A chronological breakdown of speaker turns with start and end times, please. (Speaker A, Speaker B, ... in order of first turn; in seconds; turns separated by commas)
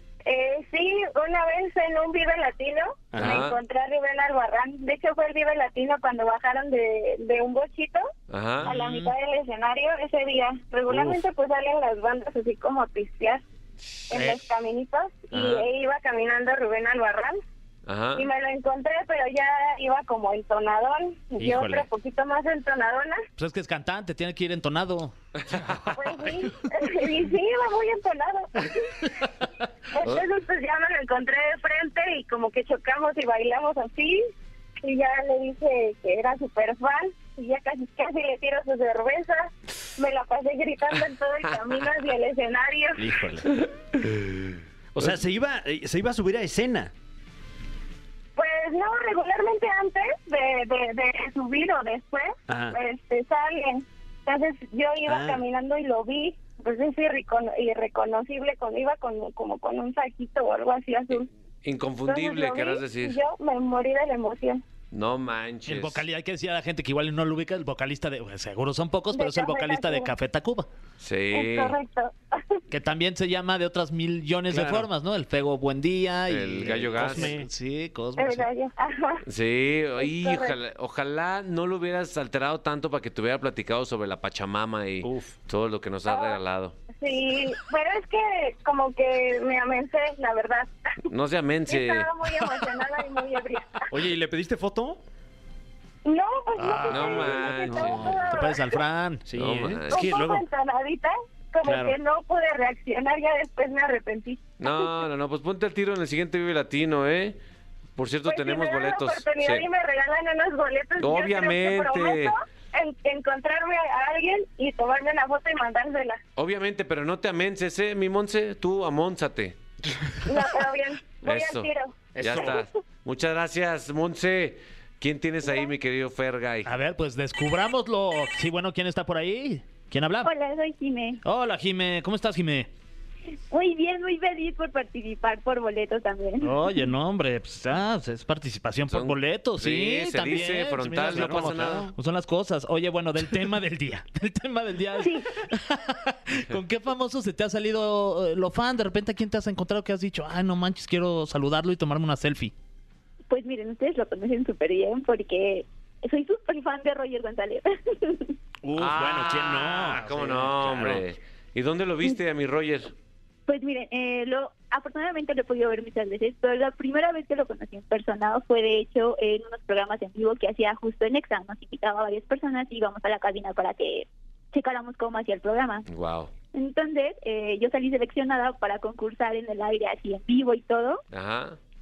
Speaker A: 0.3-8.1, Speaker B: 3.1-3.5, Speaker C: 3.2-3.6, Speaker C: 8.3-8.7, Speaker A: 8.6-13.4, Speaker D: 8.7-9.1, Speaker B: 10.9-11.2, Speaker C: 13.8-14.2, Speaker A: 14.1-17.4, Speaker C: 15.3-15.7, Speaker C: 17.9-18.3, Speaker A: 18.1-23.2, Speaker B: 21.4-21.9, Speaker D: 23.4-25.1, Speaker C: 25.4-25.9, Speaker A: 25.9-29.1, Speaker A: 29.9-34.2, Speaker A: 34.8-43.1, Speaker C: 41.4-41.8, Speaker B: 43.0-43.6, Speaker B: 44.9-46.9, Speaker A: 48.4-61.3, Speaker B: 52.5-52.8, Speaker B: 55.1-55.4, Speaker C: 61.6-63.2, Speaker A: 62.0-64.6, Speaker C: 64.9-66.0, Speaker D: 65.7-70.7, Speaker A: 69.1-70.1, Speaker C: 71.0-71.8, Speaker A: 71.3-72.6, Speaker D: 72.7-78.5, Speaker B: 74.5-74.9, Speaker C: 76.3-77.3, Speaker B: 76.7-77.5, Speaker A: 78.2-79.2, Speaker C: 79.2-86.8, Speaker A: 80.0-80.5, Speaker B: 85.0-85.3, Speaker A: 86.1-86.4, Speaker A: 87.0-90.7, Speaker C: 91.1-92.1, Speaker A: 91.7-93.9, Speaker B: 93.9-95.0, Speaker A: 96.0-98.8, Speaker D: 96.6-96.9, Speaker B: 96.8-98.3, Speaker C: 96.9-98.2, Speaker D: 98.3-99.2, Speaker B: 99.2-100.3, Speaker C: 99.3-100.4, Speaker A: 99.9-104.8, Speaker B: 101.6-102.0, Speaker C: 104.6-107.4, Speaker C: 108.0-109.7, Speaker A: 108.2-116.2, Speaker C: 111.0-112.3, Speaker C: 116.3-119.6, Speaker A: 120.2-121.9, Speaker C: 121.2-121.7, Speaker B: 122.1-122.6, Speaker C: 122.2-126.7, Speaker D: 126.7-130.3, Speaker E: 130.2-131.2, Speaker D: 131.2-132.7, Speaker E: 133.5-136.8, Speaker D: 136.4-152.5, Speaker C: 138.9-141.9, Speaker B: 141.1-141.9, Speaker E: 145.0-145.3, Speaker E: 153.3-158.3, Speaker B: 158.6-161.0, Speaker C: 158.7-162.9, Speaker E: 163.5-175.8, Speaker C: 175.9-176.3, Speaker E: 176.5-181.0, Speaker C: 181.1-181.6